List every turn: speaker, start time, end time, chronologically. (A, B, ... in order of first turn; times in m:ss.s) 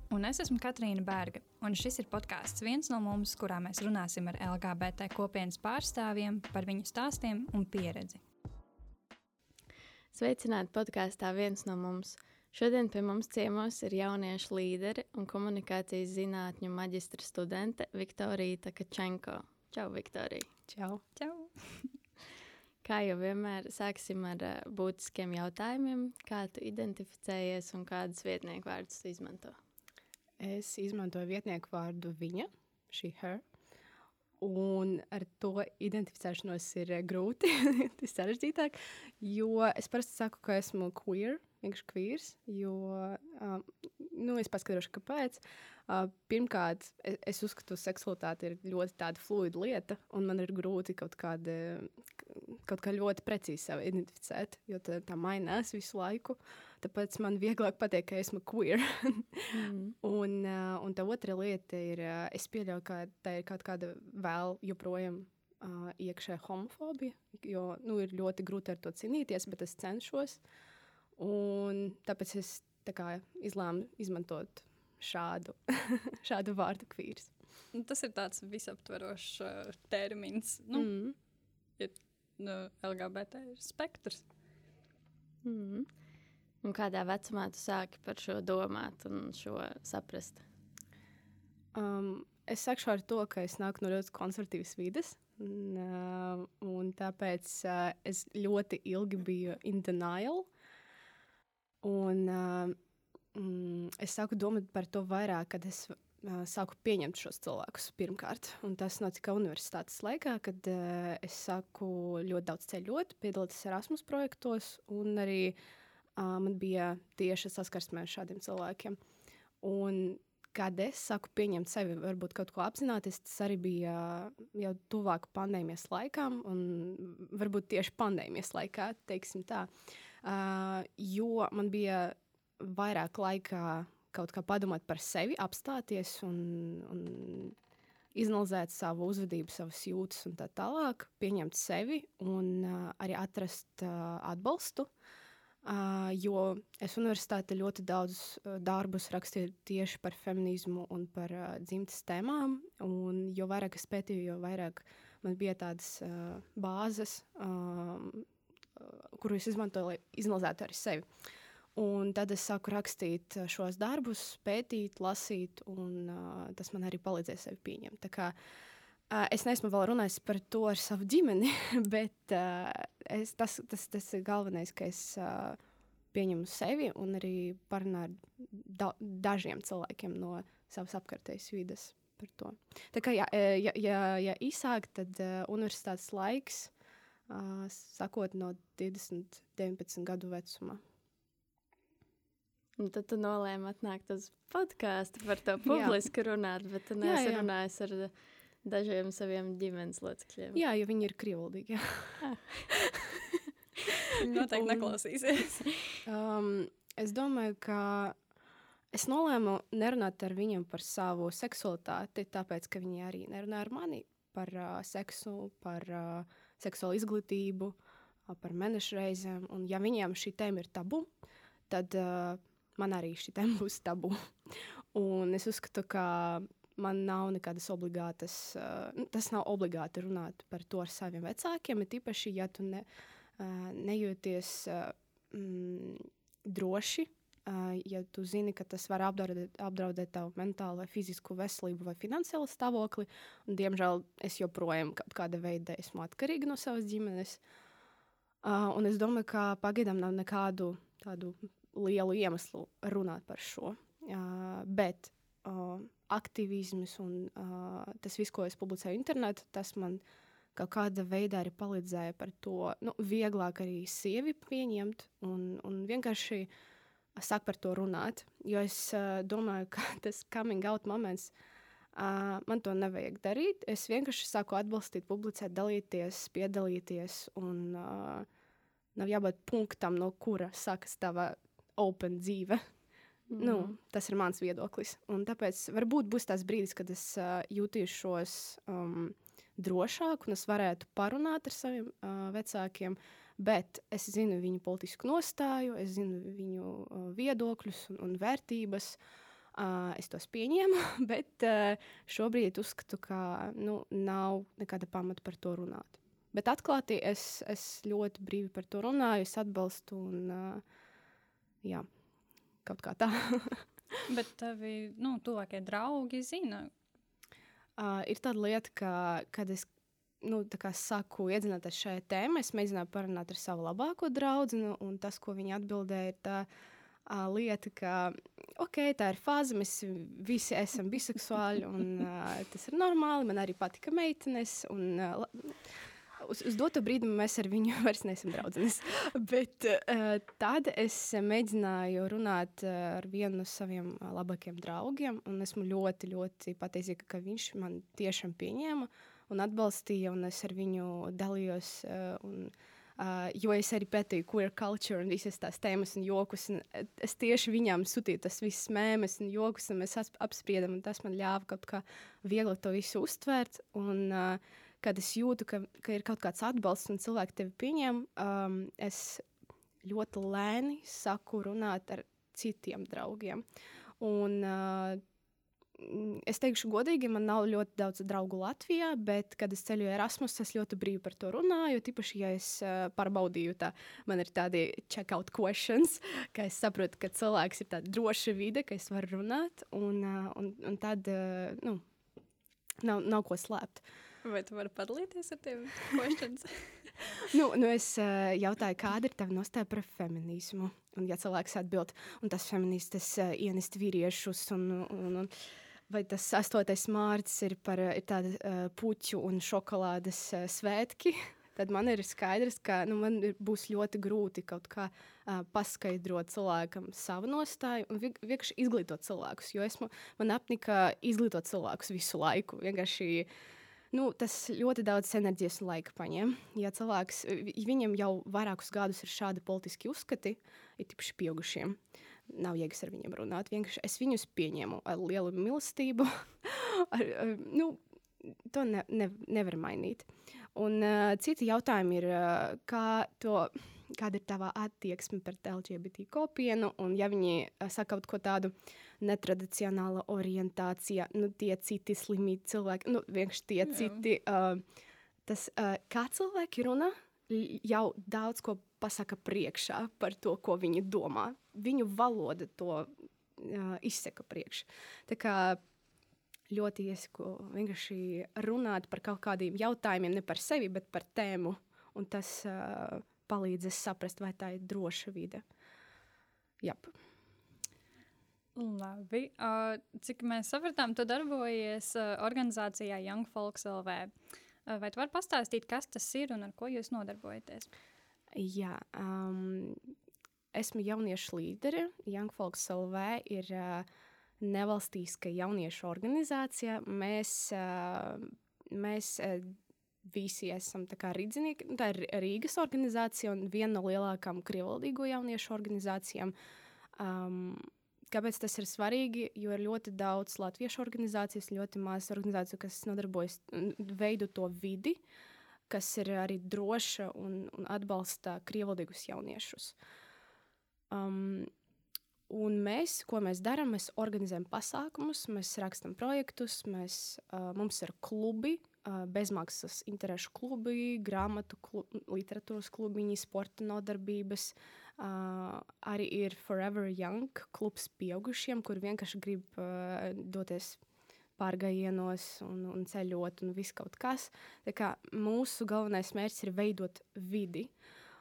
0:00.1-0:08.2 A
0:10.1-0:20.5 B
0:20.7-0:21.0 C
0:21.2-0:21.9 A
0:22.8-0:29.6 B
0:30.4-0:33.4 C
0:34.4-1:10.4 C
0:59.5-1:00.0 B
1:11.2-1:17.3 C
1:17.7-1:20.9 A
1:20.7-1:21.2 C
1:21.8-1:24.2 A
1:25.4-1:25.9 B
1:26.6-1:30.4 B
1:31.8-1:40.5 C
1:41.8-1:42.8 C
1:43.3-1:55.6 C
1:56.2-1:59.0 C
1:59.6-2:09.7 C
2:10.2-2:17.6 C
2:18.2-2:24.9 C
2:25.6-2:38.3 C
2:38.8-2:41.0 C
2:41.8-2:48.3 C
2:49.1-2:55.6 C
2:56.1-3:06.7 C
3:07.3-3:10.8 C
3:12.8-3:18.1 B
3:15.7-3:16.0 C
3:17.0-3:17.5 C
3:18.6-3:20.6 B
3:20.6-3:22.2 C
3:22.2-3:22.7 B
3:24.2-3:25.7 A
3:24.2-3:25.0 C
3:26.0-3:28.2 C
3:28.9-3:37.8 C
3:38.3-3:41.1 C
3:41.7-3:52.8 C
3:53.4-4:07.4 C
4:08.4-4:20.0 C
4:20.6-4:26.5 C
4:27.2-4:31.3 C
4:32.0-4:38.3 C
4:39.0-4:42.6 C
4:43.3-4:43.7 B
4:43.4-4:59.0 C
4:59.6-5:10.6 C
5:12.6-5:13.7 C
5:14.1-5:16.7 A
5:17.8-5:19.7 C
5:20.2-5:26.5 C
5:27.1-5:35.6 C
5:36.2-6:09.2 C
6:09.8-6:13.4 C
6:14.0-6:15.0 C
6:15.8-6:31.8 C
6:32.8-6:33.8 C
6:34.2-6:37.2 A
6:37.3-6:45.3 C
6:45.9-7:03.3 C
7:03.9-7:11.8 C
7:12.3-7:34.6 C
7:35.3-7:45.6 C
7:46.5-7:55.4 C
7:56.6-7:56.9 C
7:58.6-8:04.1 A
8:04.7-8:07.7 A
8:08.3-8:09.9 C
8:10.5-8:13.9 C
8:14.4-8:26.3 C
8:27.0-8:35.0 C
8:35.7-8:39.8 C
8:40.9-8:41.5 C
8:42.3-9:00.8 C
9:01.4-9:07.7 C